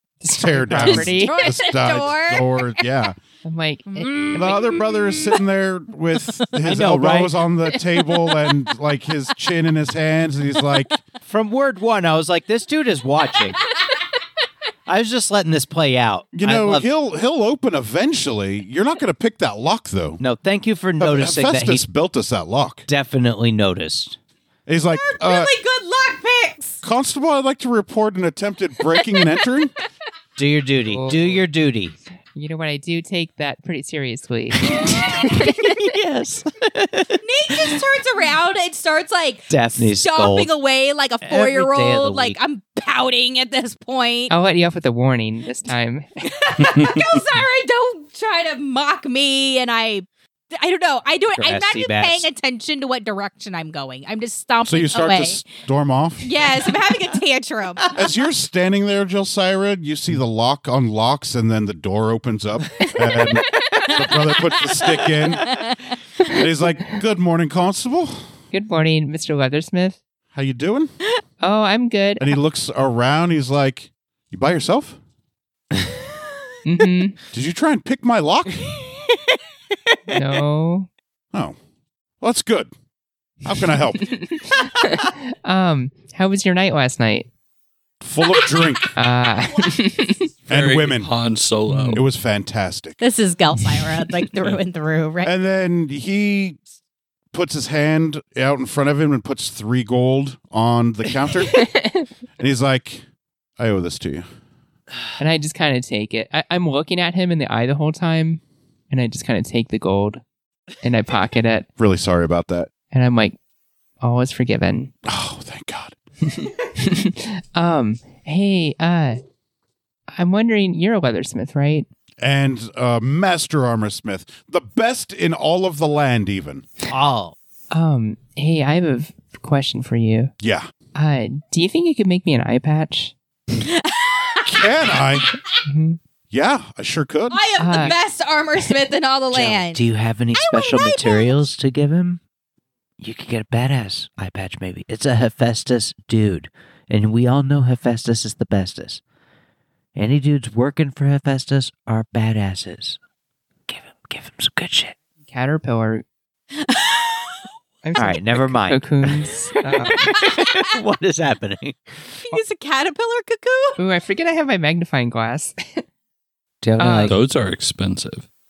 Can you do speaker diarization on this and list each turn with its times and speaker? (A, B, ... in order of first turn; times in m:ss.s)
0:00.2-0:01.4 A
0:00.3-0:03.2 B
0:00.8-0:02.8 C
0:03.4-0:04.5 A
0:03.9-0:05.4 C
0:04.4-0:11.0 B
0:06.6-0:07.4 D
0:11.3-0:13.7 D
0:14.9-0:16.9 D
0:16.3-0:20.2 B
0:20.2-0:21.8 D
0:21.0-0:22.9 B
0:22.9-0:24.2 D
0:24.7-0:25.5 B
0:24.9-0:26.8 C
0:26.8-0:29.7 B
0:30.4-0:32.0 D
0:30.9-0:31.4 A
0:32.4-0:35.7 A
0:34.6-0:37.8 D
0:34.9-0:35.2 C
0:37.2-0:44.3 C
0:39.5-0:40.5 D
0:41.2-0:42.4 D
0:44.3-0:46.3 A
0:46.3-0:55.4 C
0:51.4-0:52.3 D
0:54.6-0:56.5 B
0:56.2-0:58.0 C
0:57.9-1:05.6 B
1:03.6-1:06.0 C
1:06.2-1:08.3 B
1:08.5-1:10.0 A
1:10.3-1:10.9 B
1:11.4-1:12.3 A
1:12.2-1:15.0 B
1:16.6-1:17.2 A
1:17.3-1:18.6 B
1:20.1-1:20.9 A
1:22.2-1:22.7 B
1:23.4-1:24.2 B
1:24.1-1:27.3 A
1:28.0-1:28.9 B
1:29.0-1:30.3 A
1:30.5-1:32.0 E
1:30.5-1:31.1 B
1:31.7-1:32.0 A
1:31.9-1:33.0 B
1:33.0-1:35.3 C
1:35.2-1:36.6 B
1:37.3-1:41.6 B
1:41.5-1:42.1 A
1:42.4-1:43.0 B
1:43.6-1:44.2 B
1:45.2-1:50.2 A
1:50.8-1:51.7 A
1:51.8-1:52.7 B
1:52.9-1:53.4 A
1:54.0-1:54.9 A
1:55.0-1:56.0 B
1:56.3-1:59.2 A
2:00.1-2:01.9 A
2:02.2-2:06.7 B
2:06.9-2:07.4 D
2:07.7-2:10.3 A
2:10.4-2:10.7 B
2:11.0-2:13.1 A
2:13.6-2:15.3 C
2:14.4-2:15.3 B
2:15.7-2:16.0 A
2:16.3-2:17.4 B
2:17.3-2:19.8 C
2:17.6-2:18.0 A
2:19.3-2:22.2 D
2:20.4-2:21.4 C
2:23.0-2:29.0 D
2:30.0-2:33.0 D
2:33.7-2:35.0 D
2:35.3-2:36.0 A
2:36.6-2:37.4 C
2:37.8-2:40.1 A
2:38.0-2:39.1 D
2:39.9-2:42.0 D
2:42.3-2:43.8 C
2:43.8-2:45.8 A
2:46.6-2:47.2 D
2:46.8-2:47.2 A
2:47.1-2:48.3 E